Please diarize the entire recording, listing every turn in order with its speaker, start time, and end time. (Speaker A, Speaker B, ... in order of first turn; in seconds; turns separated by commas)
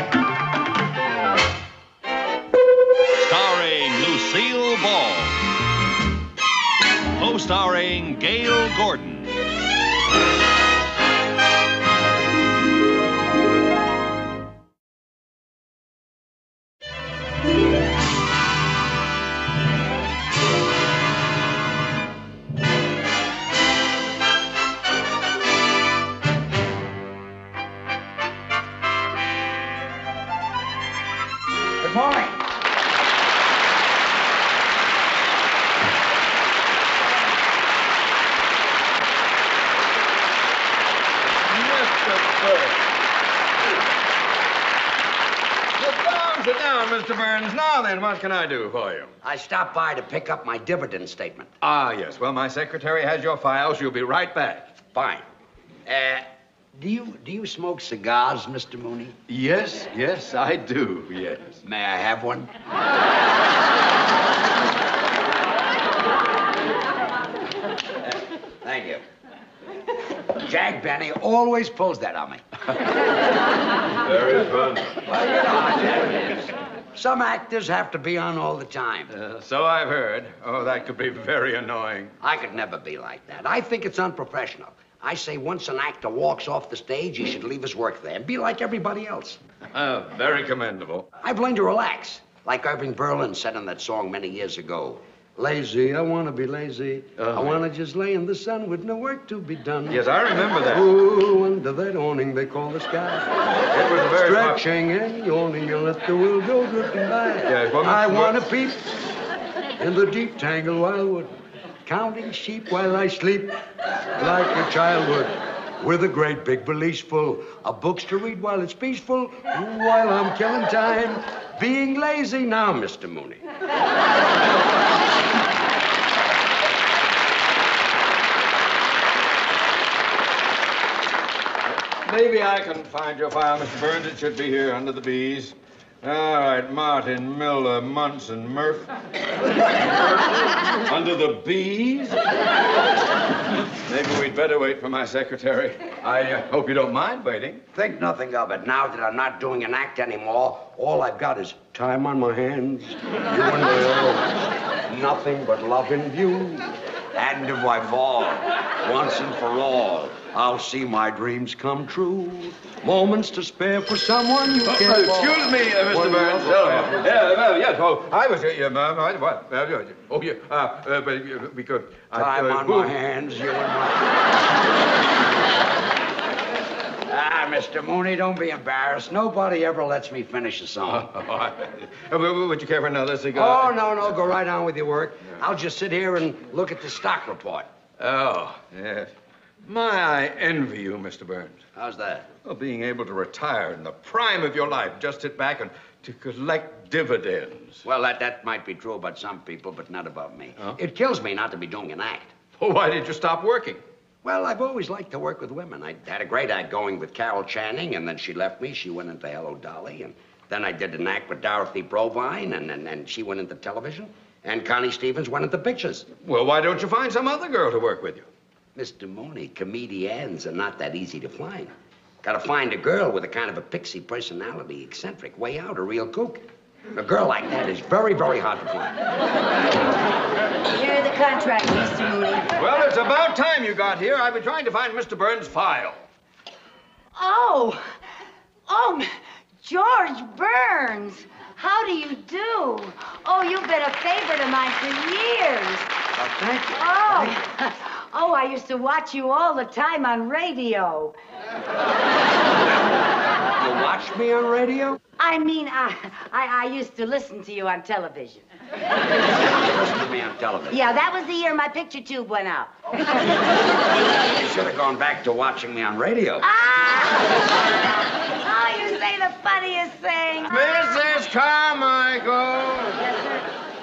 Speaker A: 3.2-5.4, Speaker A: 7.2-9.4, Speaker B: 31.8-32.4, Speaker A: 41.2-42.8, Speaker A: 45.8-49.1, Speaker B: 49.2-51.5, Speaker A: 51.6-54.8, Speaker B: 54.9-55.2, Speaker B: 55.9-59.2, Speaker A: 59.3-61.6, Speaker B: 61.6-62.5, Speaker B: 68.0-69.0, Speaker B: 70.3-72.4, Speaker A: 74.0-75.0, Speaker B: 75.0-79.1, Speaker A: 79.1-82.1, Speaker B: 82.2-89.4, Speaker A: 89.7-91.1, Speaker B: 91.2-100.0, Speaker A: 97.2-97.6, Speaker A: 99.9-100.9, Speaker B: 100.7-103.3, Speaker A: 103.7-104.6, Speaker B: 104.1-108.8, Speaker A: 107.5-108.4, Speaker B: 109.8-113.6, Speaker B: 114.1-123.4, Speaker A: 132.0-138.9, Speaker A: 139.6-142.2, Speaker A: 143.8-147.6, Speaker B: 147.7-167.1, Speaker A: 164.6-172.9, Speaker B: 172.1-174.2, Speaker B: 177.1-181.1, Speaker A: 180.9-183.8, Speaker B: 183.3-187.7, Speaker A: 188.0-189.1, Speaker A: 189.7-191.6, Speaker B: 191.8-192.3, Speaker A: 192.4-197.8, Speaker B: 197.8-202.3, Speaker A: 202.6-203.8, Speaker B: 204.2-216.1, Speaker A: 216.2-218.3, Speaker B: 218.8-221.7, Speaker B: 222.2-229.0, Speaker C: 230.7-232.5, Speaker A: 232.6-236.0, Speaker C: 237.1-237.9, Speaker C: 238.7-239.1, Speaker C: 239.6-245.9, Speaker B: 246.2-247.4, Speaker C: 246.8-251.2, Speaker B: 253.4-255.0, Speaker C: 255.2-258.4, Speaker B: 259.4-260.8, Speaker C: 260.7-262.7, Speaker B: 264.2-266.5, Speaker C: 266.4-267.4, Speaker C: 268.4-270.8, Speaker A: 270.5-273.0, Speaker C: 273.0-273.5